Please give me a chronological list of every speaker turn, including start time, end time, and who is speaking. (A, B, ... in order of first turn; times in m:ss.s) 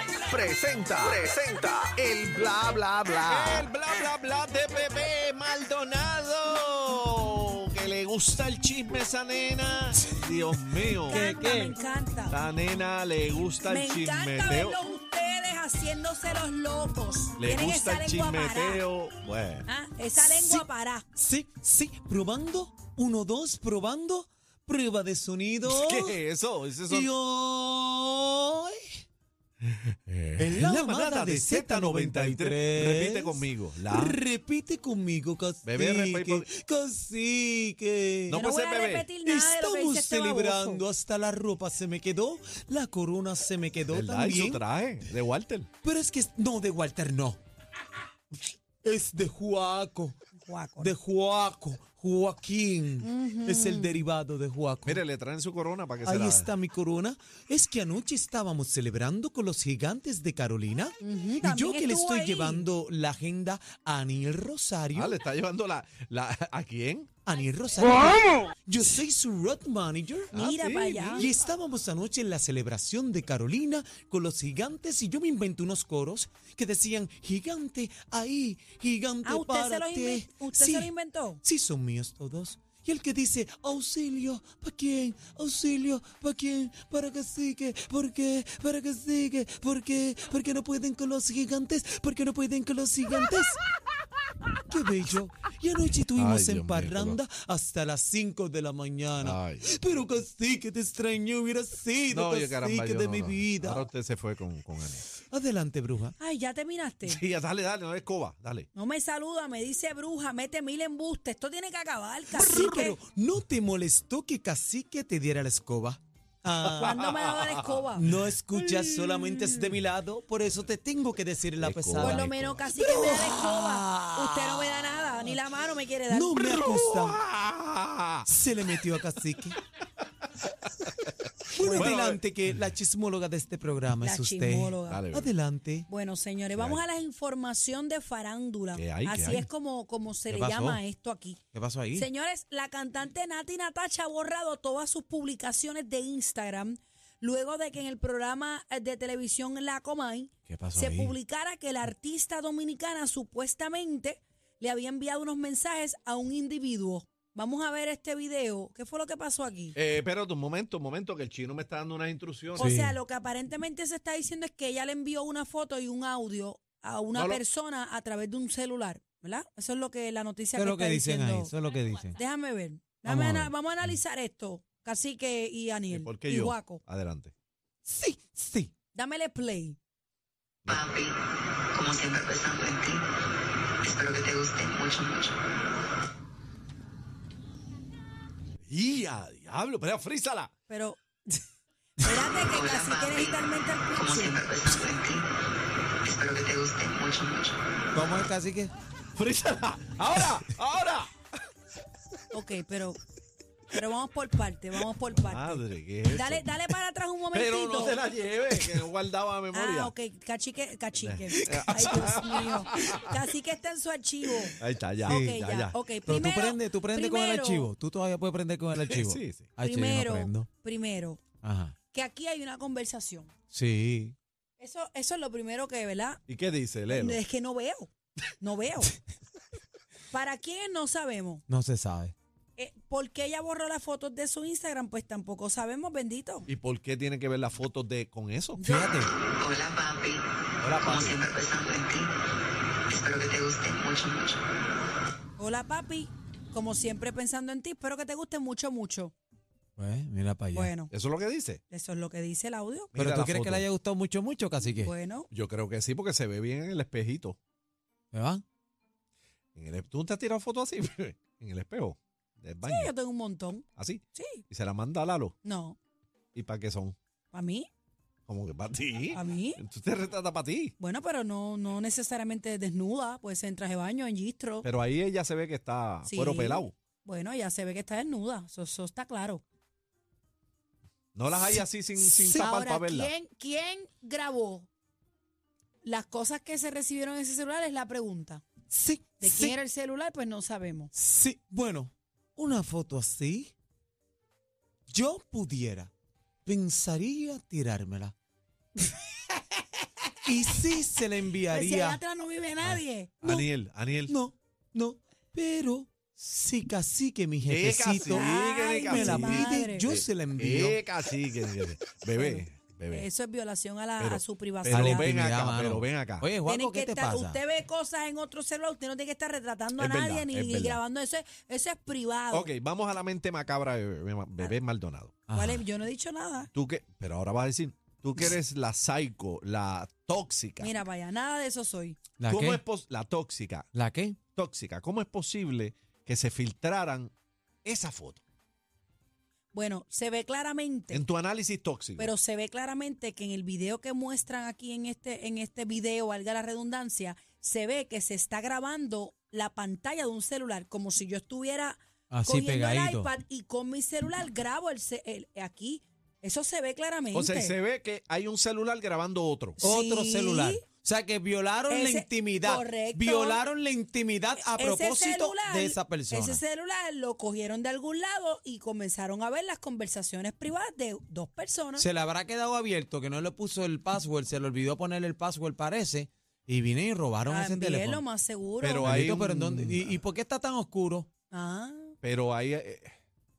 0:00.2-0:03.7 A
0:03.2-0:11.3 B
0:11.1-0:12.4 C
0:11.1-0:11.8 D
0:12.3-0:14.8 B
0:13.6-0:18.8 C
0:17.4-0:19.6 B
0:19.7-0:21.0 C
0:20.2-0:26.2 D
0:25.6-0:27.1 B
0:26.9-0:29.0 D
0:29.6-0:34.2 B
0:30.4-0:38.4 D
0:35.6-0:36.4 B
0:38.3-0:39.1 B
0:38.3-0:40.8 C
0:39.2-0:44.6 D
0:43.9-0:45.7 B
0:45.8-0:47.4 D
0:48.8-0:50.1 D
0:50.4-0:50.9 C
0:50.8-0:55.0 D
0:53.0-0:54.0 C
0:54.8-0:56.5 B
0:56.0-1:05.2 D
1:01.0-1:02.7 C
1:04.9-1:07.2 B
1:07.2-1:10.3 D
1:10.3-1:11.2 B
1:10.3-1:11.3 C
1:11.1-1:20.9 D
1:19.2-1:21.4 C
1:21.4-1:33.6 D
1:34.6-1:43.9 D
1:36.2-1:37.2 B
1:39.2-1:39.7 B
1:42.1-1:45.0 B
1:45.1-1:46.1 D
1:46.2-1:47.2 C
1:47.0-1:48.7 B
1:48.7-1:53.0 C
1:52.3-1:57.0 D
1:56.6-1:57.6 B
1:56.8-1:58.0 C
1:57.9-2:04.8 D
1:58.8-1:59.5 B
2:01.6-2:02.5 B
2:02.0-2:06.4 C
2:06.1-2:07.2 D
2:06.4-2:08.3 B
2:08.2-2:09.6 D
2:11.5-2:15.9 D
2:11.6-2:12.0 C
2:11.6-2:12.2 B
2:14.0-2:15.1 C
2:14.9-2:15.3 B
2:15.9-2:21.4 C
2:16.5-2:16.8 B
2:18.7-2:19.4 B
2:20.3-2:20.8 D
2:21.5-2:22.1 D
2:21.9-2:39.8 C
2:30.5-2:31.1 D
2:39.7-2:42.7 B
2:42.5-2:51.5 C
2:42.6-2:43.0 D
2:47.1-2:47.4 B
2:50.6-2:52.2 D
2:52.1-2:56.8 C
2:53.0-2:53.5 D
2:55.9-2:57.3 B
2:57.8-2:58.7 D
2:58.9-2:59.8 C
3:00.6-3:00.9 B
3:00.7-3:01.2 E
3:01.7-3:03.0 E
3:03.9-3:05.3 E
3:08.7-3:10.5 B
3:10.7-3:11.4 C
3:12.0-3:14.8 C
3:12.5-3:13.4 E
3:13.9-3:15.3 E
3:16.2-3:17.6 E
3:17.9-3:18.7 D
3:19.1-3:21.2 B
3:22.3-3:23.0 C
3:23.7-3:25.6 C
3:25.2-3:26.5 B
3:26.1-3:28.0 C
3:27.3-3:29.9 B
3:29.5-3:37.7 C
3:31.0-3:33.0 B
3:31.5-3:33.1 D
3:34.6-3:35.8 B
3:35.1-3:35.4 D
3:36.0-3:40.5 D
3:38.8-3:39.5 B
3:39.6-3:41.2 C
3:41.4-3:41.7 D
3:41.9-3:43.3 C
3:43.5-3:44.1 D
3:44.6-3:46.2 C
3:46.3-3:47.2 B
3:46.9-3:48.9 C
3:50.1-3:51.4 C
3:51.5-3:52.1 D
3:52.6-3:56.5 C
3:56.5-3:58.6 B
3:58.6-3:59.0 C
3:58.6-3:59.1 D
3:59.2-4:00.2 E
4:00.6-4:01.3 B
4:00.8-4:02.1 E
4:03.0-4:04.4 E
4:05.4-4:09.1 C
4:09.8-4:10.7 D
4:10.5-4:10.9 C
4:10.9-4:11.6 B
4:11.7-4:12.9 C
4:12.9-4:13.6 B
4:12.9-4:14.9 D
4:14.6-4:15.3 C
4:15.3-4:17.4 B
4:18.1-4:18.4 D
4:19.5-4:22.9 B
4:22.6-4:24.4 C
4:23.8-4:25.3 B
4:25.4-4:25.8 C
4:26.3-4:27.0 B
4:27.3-4:27.7 C
4:28.3-4:30.7 B
4:29.1-4:29.6 C
4:30.8-4:34.7 C
4:34.6-4:36.7 B
4:36.0-4:39.4 C
4:41.1-4:43.1 B
4:42.0-4:42.5 D
4:42.3-4:44.7 C
4:45.8-4:48.4 C
4:48.7-4:49.5 D
4:49.2-4:50.9 C
4:50.9-4:53.5 D
4:54.9-4:55.9 D
4:56.4-4:58.1 D
5:00.2-5:02.0 D
5:01.5-5:03.4 C
5:03.2-5:04.1 B
5:04.1-5:08.3 D
5:07.4-5:13.1 B
5:08.0-5:09.9 C
5:08.9-5:10.8 D
5:12.2-5:15.1 C
5:14.0-5:16.3 B
5:14.6-5:17.4 D
5:16.4-5:22.5 C
5:19.8-5:20.8 B
5:22.3-5:25.2 B
5:25.3-5:25.6 D
5:25.3-5:26.5 C
5:26.5-5:30.7 B
5:30.6-5:32.0 C
5:32.2-5:32.6 D
5:32.3-5:33.7 B
5:33.7-5:34.2 D
5:34.3-5:37.1 B
5:37.6-5:38.2 B
5:39.5-5:41.0 C
5:40.9-5:42.1 B
5:42.0-5:57.5 C
5:52.1-5:53.1 D
5:57.1-5:59.6 B
5:59.6-6:00.6 C
5:59.6-6:06.4 D
6:01.7-6:03.4 C
6:04.4-6:11.9 C
6:11.8-6:18.0 D
6:17.3-6:19.0 C
6:18.6-6:20.0 B
6:18.8-6:21.1 D
6:21.3-6:21.9 C
6:22.0-6:22.9 B